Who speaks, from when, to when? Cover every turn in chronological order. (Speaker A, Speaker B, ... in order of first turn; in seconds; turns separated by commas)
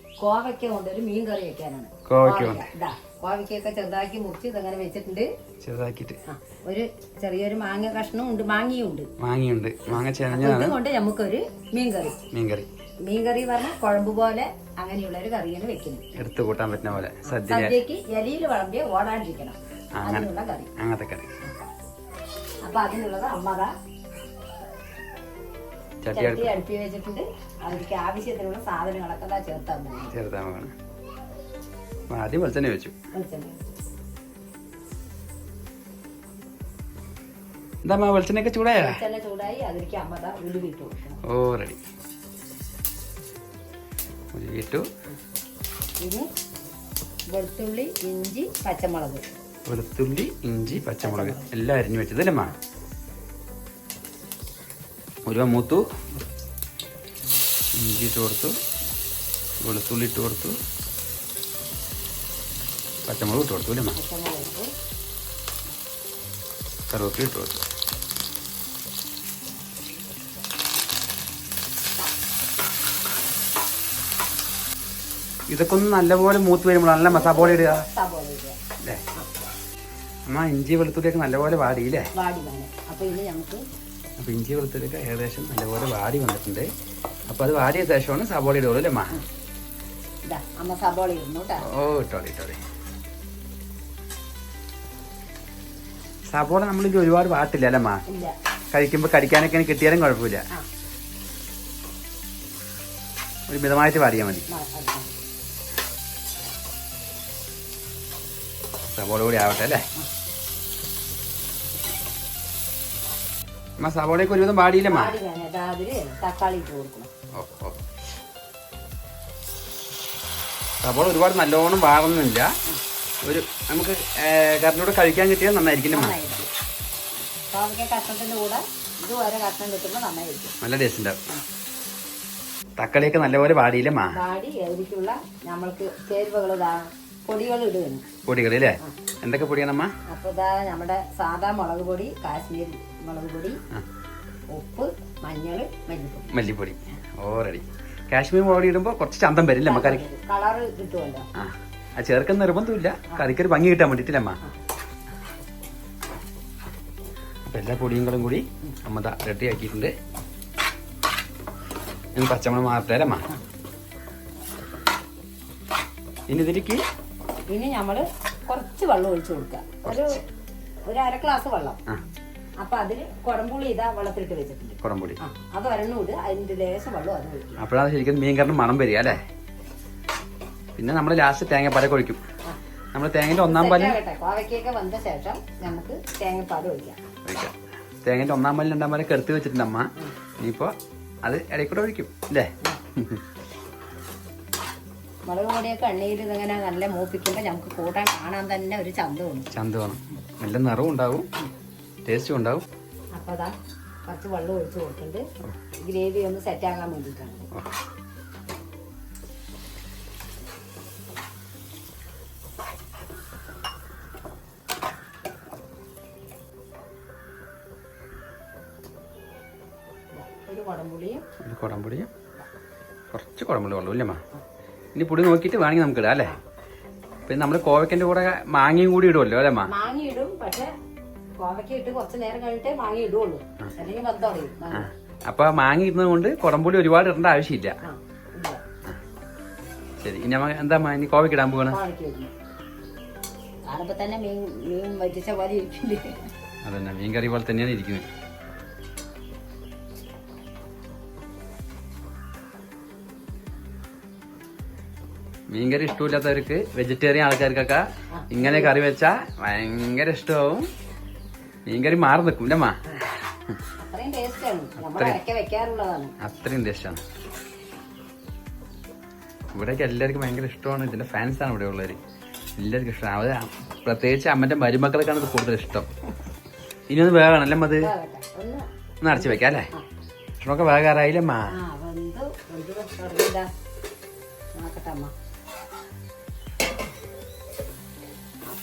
Speaker A: 0.2-5.3, Speaker B: 2.1-2.7, Speaker B: 5.6-6.2, Speaker A: 6.3-9.1, Speaker B: 9.2-10.8, Speaker A: 10.3-12.2, Speaker B: 12.3-12.7, Speaker A: 13.1-16.1, Speaker B: 16.1-17.8, Speaker A: 17.3-20.7, Speaker B: 20.0-21.3, Speaker A: 22.6-23.7, Speaker B: 26.0-26.5, Speaker A: 26.1-30.1, Speaker B: 30.1-30.7, Speaker B: 32.1-32.9, Speaker A: 33.1-33.6, Speaker B: 37.8-39.0, Speaker A: 38.8-41.2, Speaker B: 41.2-41.8, Speaker B: 44.3-44.9, Speaker A: 46.0-46.3, Speaker A: 47.3-49.2, Speaker B: 49.6-52.5, Speaker A: 51.0-51.5, Speaker B: 55.2-55.8, Speaker B: 57.8-58.6, Speaker B: 59.6-60.6, Speaker B: 63.1-64.0, Speaker A: 63.9-64.7, Speaker B: 66.9-67.6, Speaker B: 75.5-77.8, Speaker A: 77.1-78.5, Speaker B: 80.3-82.1, Speaker A: 82.1-83.6, Speaker B: 84.2-86.7, Speaker B: 87.3-89.2, Speaker A: 90.2-91.6, Speaker B: 91.7-92.6, Speaker B: 96.3-98.0, Speaker A: 98.1-98.3, Speaker B: 98.7-100.4, Speaker B: 103.5-104.5, Speaker A: 104.5-105.1, Speaker B: 108.9-109.8, Speaker B: 113.8-115.2, Speaker A: 114.9-117.1, Speaker B: 117.3-117.8, Speaker B: 120.8-122.5, Speaker B: 123.2-126.2, Speaker A: 125.9-126.5, Speaker A: 127.5-130.6, Speaker B: 130.6-131.2, Speaker B: 132.8-134.2, Speaker A: 134.1-138.1, Speaker B: 138.2-139.9, Speaker A: 140.1-143.6, Speaker A: 144.5-146.4, Speaker B: 146.3-150.1, Speaker A: 149.6-151.3, Speaker B: 151.4-154.4, Speaker B: 157.4-159.9, Speaker B: 162.1-163.2, Speaker B: 166.3-166.8, Speaker A: 167.5-170.2, Speaker B: 169.8-170.1, Speaker A: 170.9-171.8, Speaker A: 172.6-177.6, Speaker B: 174.8-175.2, Speaker B: 177.6-179.2, Speaker B: 180.8-182.2, Speaker B: 182.9-184.0, Speaker A: 183.4-187.0, Speaker B: 187.2-190.7, Speaker B: 191.2-193.2, Speaker A: 195.3-199.5, Speaker B: 199.5-201.3, Speaker B: 202.0-202.6, Speaker A: 203.1-203.5, Speaker A: 204.1-205.2, Speaker A: 205.9-207.5, Speaker A: 220.1-221.2, Speaker B: 221.4-222.1, Speaker B: 223.1-224.2, Speaker B: 224.9-226.3, Speaker B: 227.3-229.7, Speaker A: 229.7-230.7, Speaker A: 231.4-234.9, Speaker B: 234.7-237.8, Speaker A: 237.8-238.6, Speaker B: 240.0-241.8, Speaker A: 241.7-242.3, Speaker A: 243.6-246.3, Speaker B: 246.6-248.1, Speaker B: 255.5-260.7, Speaker A: 258.1-258.7, Speaker B: 261.6-262.8, Speaker A: 263.8-266.1, Speaker B: 264.8-265.2, Speaker B: 266.2-267.0, Speaker B: 269.5-272.0, Speaker B: 272.6-275.9, Speaker B: 276.9-277.9, Speaker A: 277.8-279.9, Speaker B: 279.0-279.7, Speaker B: 280.4-281.5, Speaker A: 281.5-283.5, Speaker A: 284.6-285.1